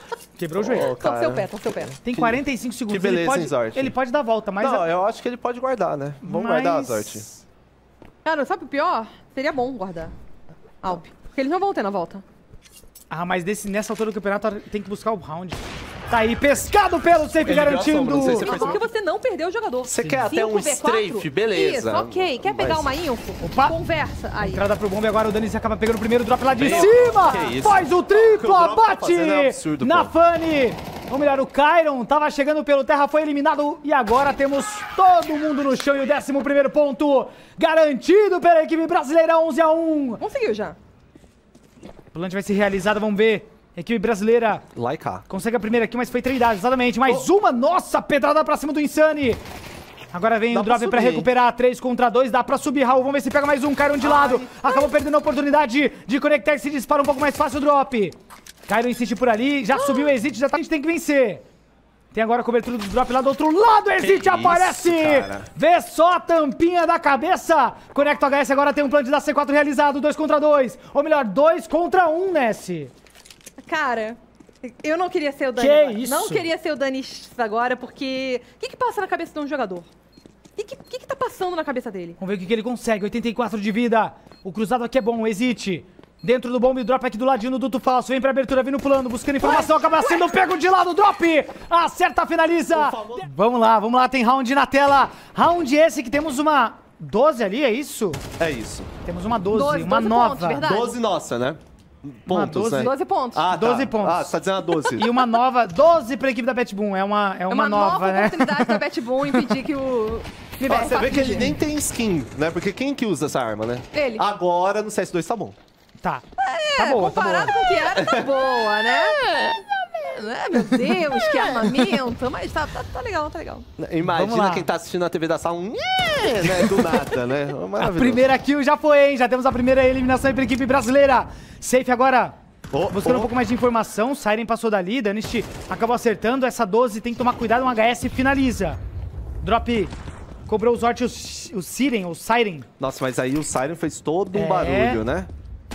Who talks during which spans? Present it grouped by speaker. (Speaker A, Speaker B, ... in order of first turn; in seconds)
Speaker A: 0.4-0.9, 2.0-4.9, 6.2-7.4, 13.1-18.8, 20.0-20.3, 23.4-23.8, 24.4-40.2, 42.1-44.6, 45.3-49.4, 50.1-58.1, 58.7-61.4, 62.1-72.9, 75.6-76.5, 82.2-98.2, 99.0-100.6, 102.3-102.9, 103.5-104.4, 105.0-108.8, 116.0-116.2, 116.8-117.5, 124.0-124.7, 126.4-127.2, 127.8-132.3, 132.9-138.8, 139.4-139.9, 140.5-142.7, 144.3-145.0
Speaker B: 0.6-3.9, 4.6-7.3, 17.4-18.9, 19.9-22.9, 26.6-30.1, 44.7-45.2, 50.5-51.3, 54.0-54.4, 64.0-65.5, 92.7-93.3, 98.4-98.9, 100.6-105.1, 110.7-115.6, 117.9-118.4, 123.8-128.2, 132.7-133.3, 142.8-145.3
Speaker C: 0.8-1.9, 8.2-10.1, 10.8-12.2, 18.3-24.6, 26.6-27.5, 40.2-40.8, 54.2-54.8, 73.6-79.9, 80.6-82.2, 89.4-90.3, 99.5-101.0, 102.8-103.5, 105.0-105.2, 107.5-111.6, 113.9-114.2, 116.4-123.7